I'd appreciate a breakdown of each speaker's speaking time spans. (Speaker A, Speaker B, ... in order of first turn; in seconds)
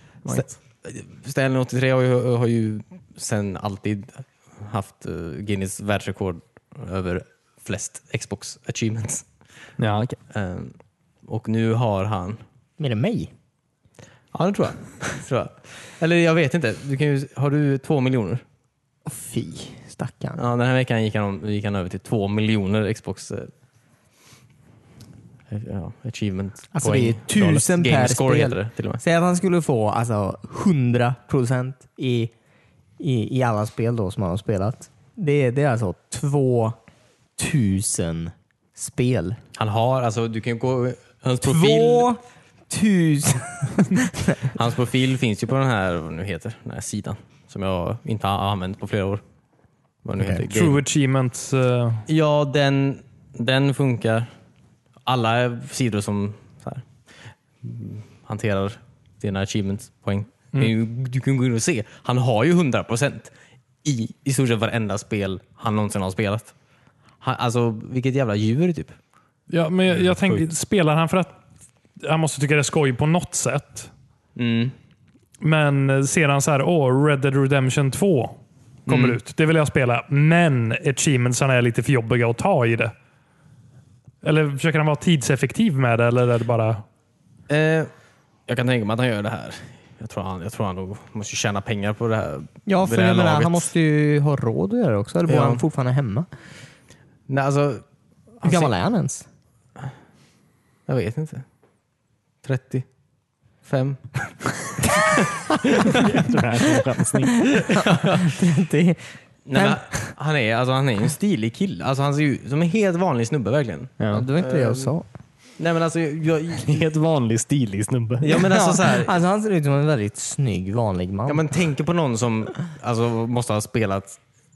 Speaker A: 0.3-9.3, 10.3-12.4, 14.3-18.4, 20.4-23.5, 25.5-29.0, 39.6-42.1, 44.5-49.2, 50.0-50.8, 52.1-54.3, 55.1-56.9, 57.6-63.3, 63.8-66.5, 67.2-69.0, 74.4-74.8, 78.9-79.2, 87.5-87.9, 88.5-93.7, 95.3-95.6, 97.3-97.8, 98.4-98.7, 100.9-101.4, 102.4-102.8, 103.7-104.3, 105.0-106.1, 107.7-108.3, 109.5-114.9, 115.6-116.8, 118.2-119.1, 121.3-124.2
Speaker B: 9.8-10.2, 69.9-70.4, 105.9-107.6, 114.0-114.3, 116.6-118.5
Speaker C: 12.8-13.3, 19.1-20.4, 26.7-32.3, 33.0-36.8, 37.4-39.4, 41.4-44.5, 50.2-50.5, 92.7-96.3, 98.4-99.2, 107.5-110.1, 114.1-115.0, 118.4-121.5
Speaker D: 50.5-52.1, 69.5-71.3, 72.0-73.9, 75.4-82.9, 84.2-86.8